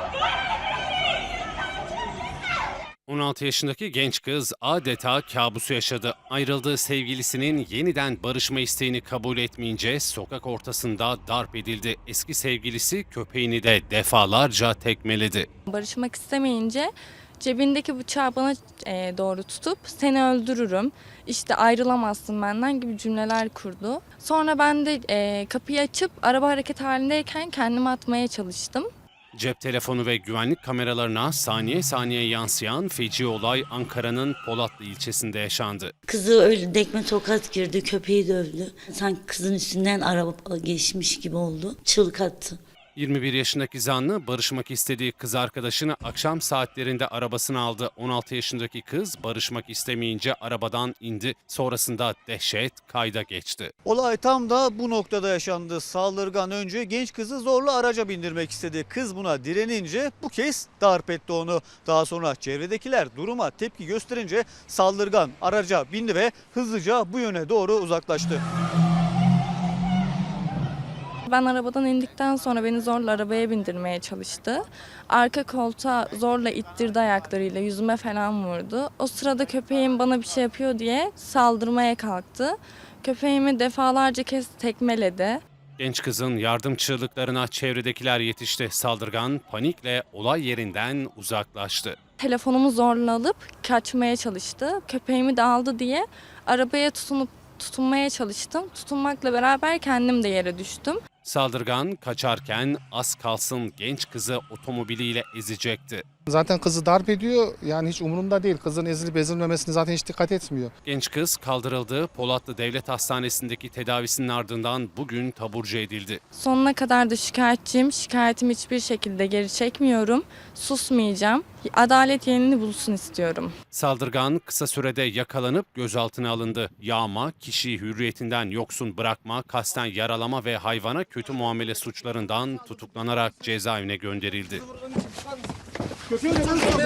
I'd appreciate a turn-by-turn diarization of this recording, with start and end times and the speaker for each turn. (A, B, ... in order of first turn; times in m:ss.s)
0:03.1-0:15.5 A
0:15.7-0:28.9 B
0:29.3-0:35.9 A
0:36.1-0:42.6 C
0:43.0-0:53.7 A
0:53.8-1:08.4 D
1:11.2-1:25.4 B
1:25.8-1:32.0 A
1:32.2-1:41.0 B
1:41.2-1:46.0 A
1:46.2-1:50.7 E
1:50.8-1:56.2 A
1:56.3-2:03.5 B
2:03.7-2:14.7 A